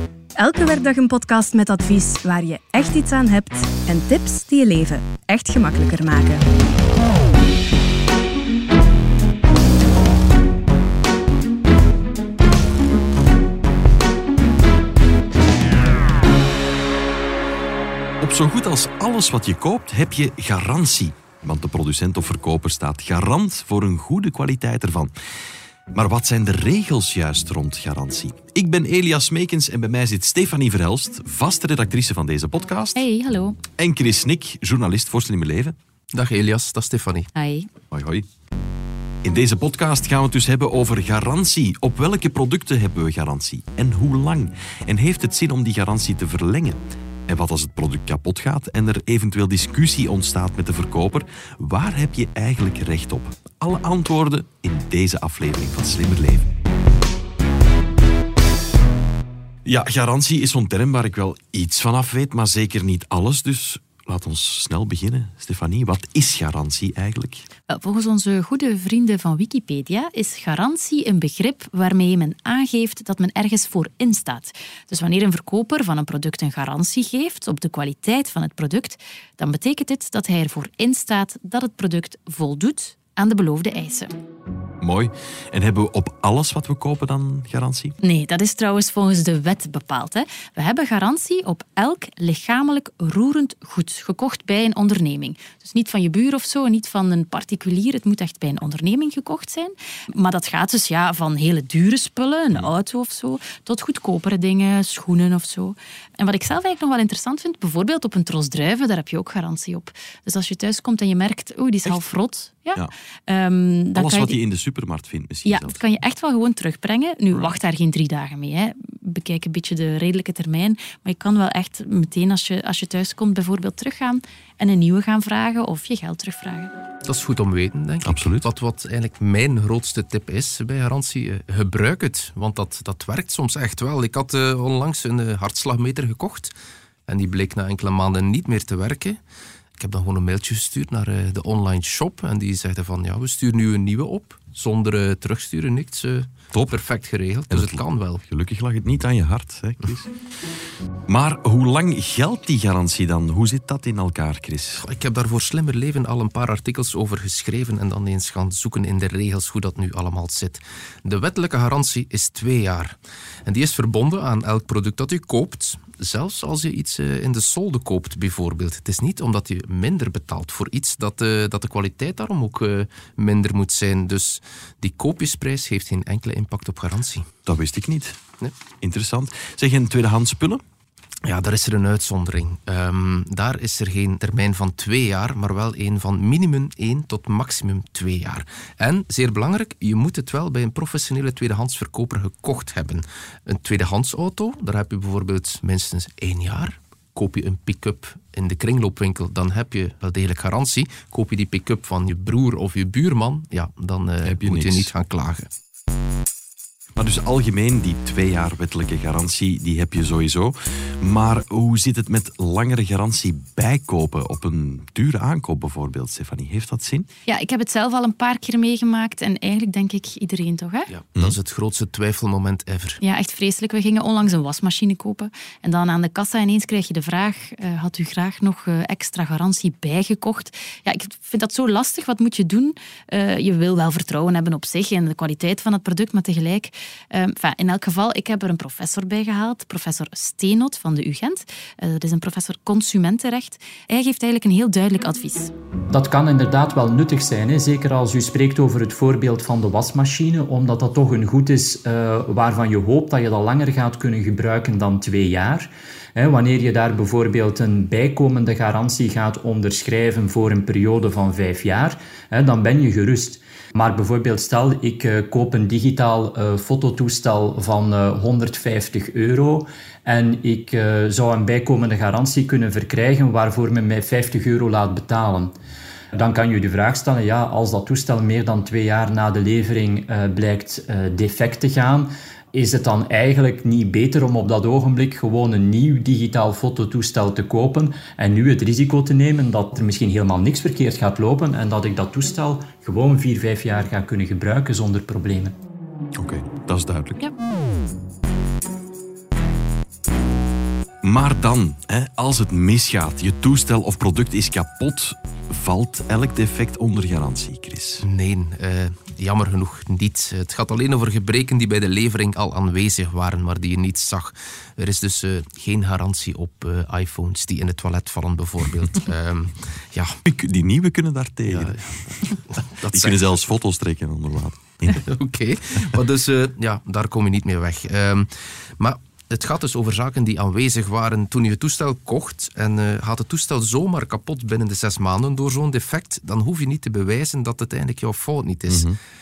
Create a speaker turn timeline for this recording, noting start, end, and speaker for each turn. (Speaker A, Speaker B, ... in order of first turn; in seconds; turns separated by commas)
Speaker A: 0.3-6.5, Speaker B: 18.2-25.1, Speaker B: 25.9-33.0, Speaker C: 33.0-33.6, Speaker B: 33.8-35.8, Speaker D: 36.1-37.3, Speaker C: 37.4-37.7, Speaker B: 37.9-38.2, Speaker B: 39.2-56.5, Speaker B: 59.6-67.5, Speaker C: 67.7-84.1, Speaker B: 84.8-87.9, Speaker C: 88.0-114.4, Speaker B: 111.8-112.1, Speaker B: 113.9-115.8, Speaker C: 115.5-126.7, Speaker D: 127.0-136.5, Speaker B: 128.0-128.5, Speaker D: 137.1-139.2, Speaker D: 139.8-148.2, Speaker B: 146.5-146.8, Speaker B: 147.5-150.1, Speaker B: 151.1-154.8, Speaker D: 154.8-177.3, Speaker B: 177.4-178.2, Speaker B: 178.8-180.6, Speaker D: 181.2-205.5, Speaker B: 204.2-204.9, Speaker B: 206.9-217.1, Speaker C: 217.3-220.9, Speaker D: 220.9-223.0, Speaker C: 223.0-245.5, Speaker E: 245.9-275.5, Speaker E: 276.1-295.5, Speaker B: 296.2-297.2, Speaker B: 301.0-308.0, Speaker D: 308.0-320.1, Speaker B: 320.2-322.3, Speaker D: 321.5-323.2, Speaker B: 322.8-325.0, Speaker D: 324.9-338.9, Speaker B: 338.7-339.0